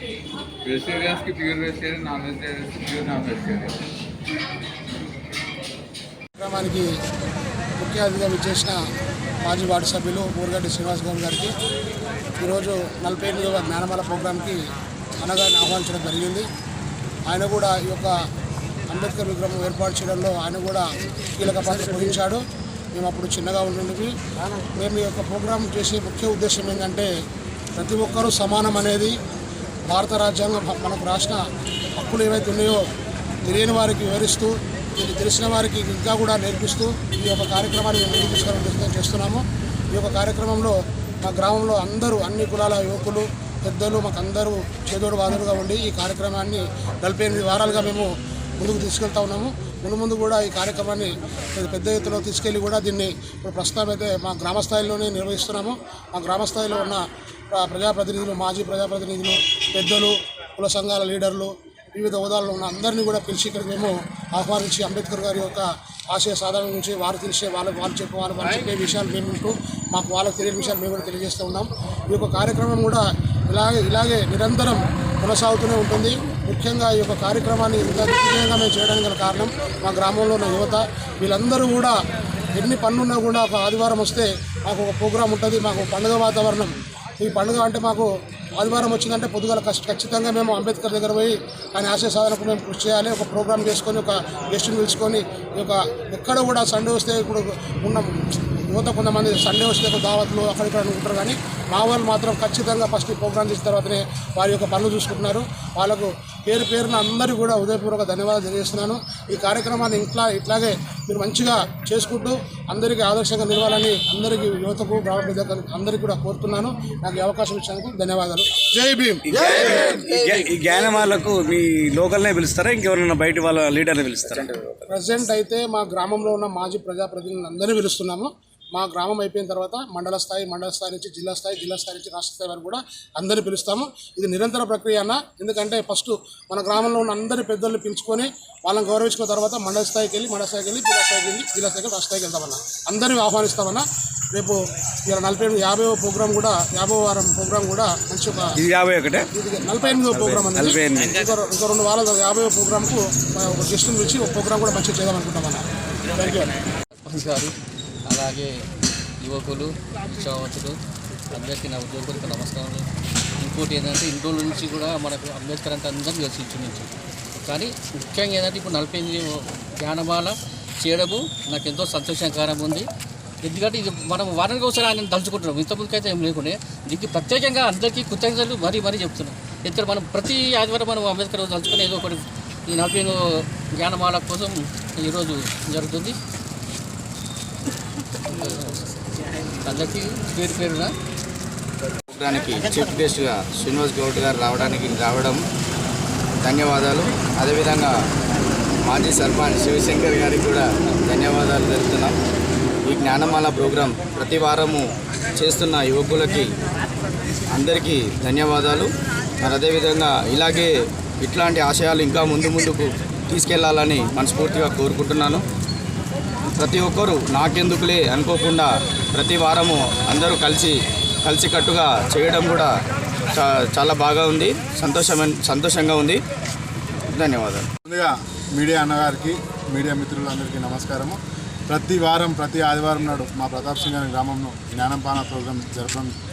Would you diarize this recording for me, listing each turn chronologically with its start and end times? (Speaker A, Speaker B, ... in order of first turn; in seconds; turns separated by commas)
Speaker A: 0.6-3.8, Speaker B: 6.4-6.9, Speaker B: 7.8-8.8, Speaker B: 9.4-11.5, Speaker B: 12.4-14.6, Speaker B: 15.2-16.5, Speaker B: 17.3-18.1, Speaker B: 18.9-20.9, Speaker B: 21.4-22.4, Speaker B: 22.9-24.1, Speaker B: 24.7-27.1, Speaker B: 27.8-29.1, Speaker B: 29.9-31.4, Speaker B: 32.0-32.8, Speaker B: 33.4-82.0, Speaker B: 82.5-119.9, Speaker C: 119.3-124.7, Speaker B: 124.9-144.6, Speaker B: 145.1-148.6, Speaker C: 148.6-149.3, Speaker B: 149.3-156.5, Speaker C: 149.9-151.2, Speaker D: 156.2-156.5, Speaker D: 157.1-157.5, Speaker D: 158.1-158.5, Speaker D: 159.2-160.8, Speaker D: 161.3-162.9, Speaker D: 163.4-172.9, Speaker D: 173.4-186.2, Speaker D: 188.3-189.0, Speaker D: 189.6-190.9, Speaker E: 192.1-195.4, Speaker E: 196.4-197.9, Speaker E: 198.8-202.2, Speaker E: 202.9-206.5, Speaker E: 207.5-208.9, Speaker E: 209.4-215.4, Speaker E: 216.6-222.7, Speaker E: 223.3-226.2, Speaker E: 227.1-227.7, Speaker F: 227.9-231.2, Speaker F: 231.7-236.1